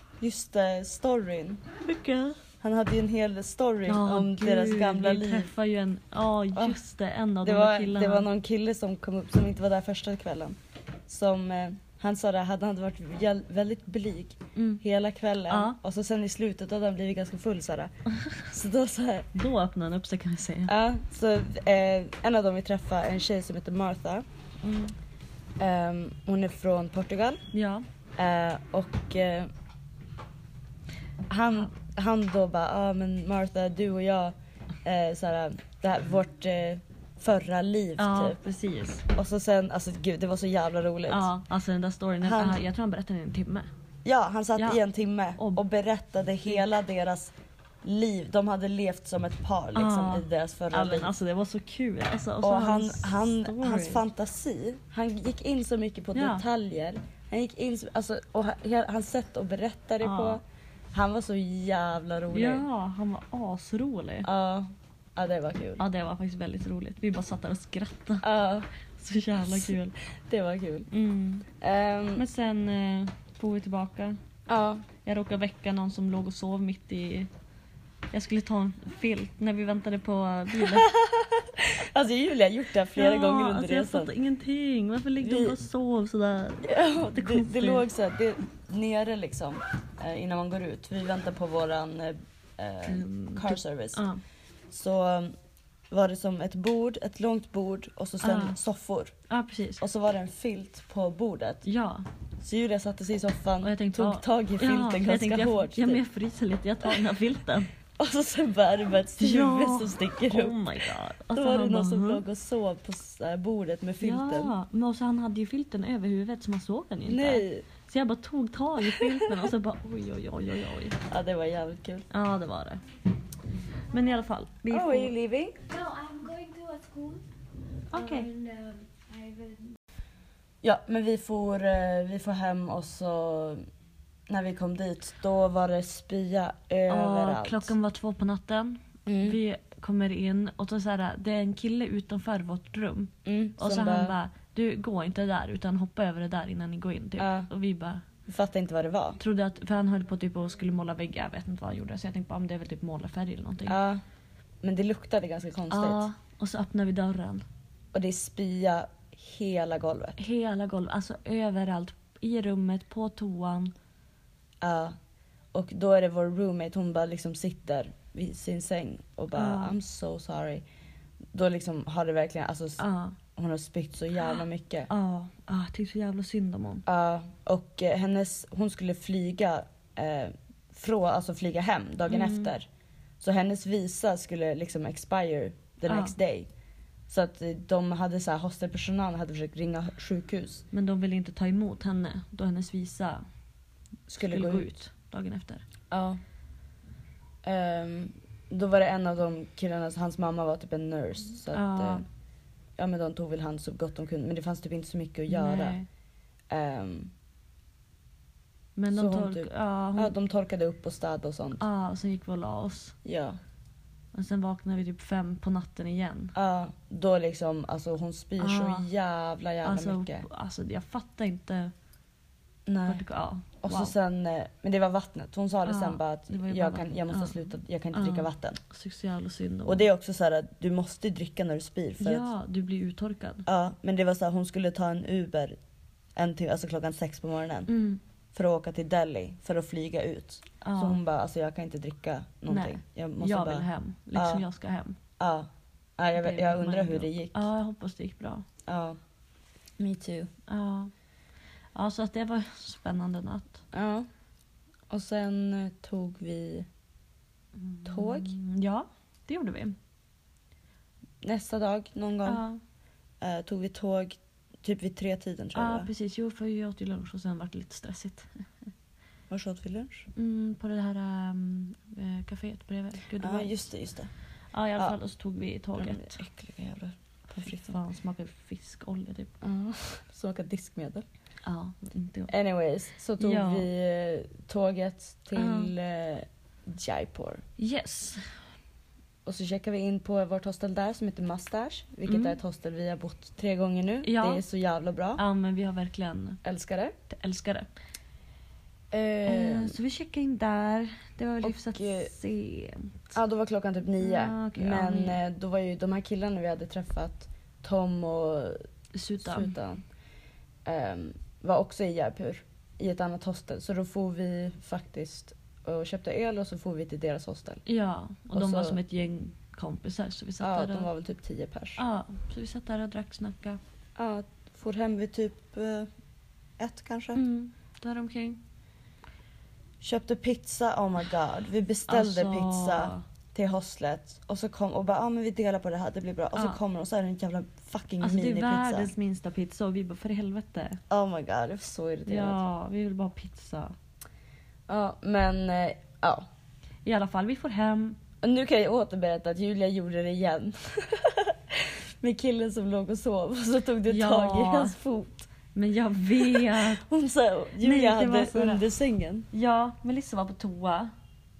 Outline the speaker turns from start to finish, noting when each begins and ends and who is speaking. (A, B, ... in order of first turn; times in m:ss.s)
0:00.2-0:01.7 A
0:01.8-0:02.4 B
0:02.6-0:05.5 A
0:03.9-0:08.3 B
0:07.4-0:17.9 A
0:14.6-0:14.8 B
0:15.5-0:15.8 B
0:18.4-0:19.3 A
0:19.3-0:20.7 B
0:20.7-0:24.2 A
0:24.6-0:24.9 B
0:25.6-0:27.4 A
0:27.5-0:27.8 B
0:28.2-0:29.5 A
0:31.3-0:38.4 A
0:38.0-0:39.0 B
0:39.0-0:41.3 A
0:41.1-0:43.7 B
0:42.2-0:42.6 A
0:44.0-0:51.1 A
0:44.6-0:44.8 B
0:45.4-0:45.6 B
0:49.8-0:54.1 B
0:52.4-1:00.4 A
0:56.2-0:56.4 B
1:00.0-1:00.4 B
1:00.9-1:02.6 A
1:02.3-1:04.3 B
1:04.2-1:05.8 A
1:05.8-1:08.3 B
1:08.2-1:08.7 A
1:09.0-1:09.9 B
1:09.4-1:10.9 A
1:10.9-1:11.5 B
1:11.6-1:12.2 A
1:12.2-1:14.2 B
1:14.5-1:14.9 A
1:15.0-1:17.3 B
1:18.1-1:20.9 B
1:20.6-1:24.1 A
1:22.9-1:27.9 B
1:25.2-1:25.6 A
1:26.6-1:34.0 A
1:32.9-1:34.2 B
1:34.7-1:35.3 A
1:35.9-1:39.1 A
1:38.2-1:38.6 B
1:39.3-1:39.8 B
1:39.8-1:41.7 A
1:41.6-1:42.1 B
1:42.4-1:46.0 A
1:43.6-1:47.7 B
1:48.0-1:50.6 A
1:49.2-1:52.2 B
1:51.3-1:54.5 A
1:54.0-2:01.0 B
1:57.1-1:57.7 A
1:58.8-1:59.5 A
2:01.0-2:02.1 A
2:02.1-2:02.8 B
2:03.9-2:05.1 B
2:04.7-2:05.6 A
2:05.7-2:07.2 C
2:07.9-2:08.3 B
2:07.9-2:09.8 C
2:10.6-2:13.6 A
2:14.3-2:17.7 A
2:16.9-2:28.0 B
2:19.1-2:19.4 A
2:23.2-2:24.2 A
2:27.2-2:27.5 A
2:28.3-2:29.2 A
2:29.2-2:33.8 B
2:33.7-2:34.0 A
2:34.6-2:36.1 A
2:35.7-2:37.4 B
2:37.9-2:40.2 A
2:40.2-2:43.7 B
2:44.6-2:45.0 A
2:45.5-2:50.6 A
2:49.4-2:49.8 B
2:51.3-2:52.8 A
2:52.8-2:53.2 B
2:53.4-2:54.9 A
2:54.9-2:56.8 B
2:56.9-3:02.7 A
3:02.1-3:02.5 B
3:03.2-3:06.5 A
3:05.9-3:06.2 B
3:07.1-3:10.6 A
3:10.7-3:13.2 B
3:14.1-3:14.7 A
3:14.2-3:15.6 B
3:15.9-3:16.2 A
3:17.4-3:22.0 A
3:21.5-3:22.0 B
3:22.8-3:25.8 A
3:25.3-3:25.9 B
3:26.5-3:27.1 A
3:28.8-3:30.2 B
3:28.9-3:31.6 A
3:31.6-3:33.0 B
3:33.0-3:33.4 A
3:34.1-3:36.4 B
3:36.4-3:40.3 A
3:38.4-3:38.9 B
3:39.6-3:41.7 B
3:42.7-3:43.0 A
3:42.9-3:43.9 B
3:43.6-3:48.6 A
3:45.6-3:49.9 B
3:49.7-3:52.3 A
3:52.0-3:53.5 B
3:53.5-3:55.6 A
3:56.2-3:57.7 A
3:57.7-3:58.0 B
3:58.3-4:04.4 A
4:00.6-4:01.0 B
4:02.5-4:05.0 B
4:05.2-4:07.5 A
4:06.2-4:08.4 B
4:08.7-4:09.0 A
4:09.8-4:10.3 A
4:10.5-4:10.9 B
4:11.8-4:13.6 B
4:13.7-4:14.1 A
4:14.9-4:16.7 A
4:17.6-4:19.8 B
4:17.8-4:18.4 A
4:21.2-4:22.4 A
4:22.2-4:22.6 B
4:23.2-4:25.9 A
4:25.6-4:28.4 B
4:29.3-4:30.1 A
4:30.2-4:33.6 B
4:33.2-4:34.1 A
4:34.5-4:36.2 B
4:35.8-4:37.8 A
4:37.3-4:39.4 B
4:39.4-4:41.1 A
4:41.4-4:42.3 B
4:42.3-4:47.4 A
4:43.2-4:43.7 B
4:45.4-4:45.7 B
4:47.6-4:48.3 B
4:49.2-4:55.2 A
4:52.1-4:52.4 B
4:54.0-4:54.4 B
4:55.2-4:56.4 B
4:56.4-4:56.9 A
4:57.1-4:57.7 B
4:58.9-4:59.8 A
4:59.3-5:03.0 B
5:01.4-5:02.1 A
5:03.1-5:08.6 A
5:04.0-5:05.2 B
5:08.9-5:09.5 B
5:09.2-5:09.8 A
5:10.6-5:17.6 A
5:17.7-5:20.9 B
5:18.3-5:18.8 A
5:20.4-5:21.8 A
5:21.8-5:23.6 B
5:24.0-5:25.9 A
5:26.6-5:27.2 A
5:27.2-5:28.4 B
5:29.8-5:38.9 A
5:31.9-5:33.0 B
5:36.3-5:36.6 B
5:38.0-5:40.8 B
5:40.9-5:42.4 A
5:42.1-5:43.8 B
5:44.7-5:46.3 A
5:46.8-5:48.0 B
5:48.2-5:55.3 A
5:53.9-5:54.8 B
5:55.5-5:56.8 B
5:56.2-5:59.3 A
5:57.6-5:58.7 B
5:59.3-6:00.9 B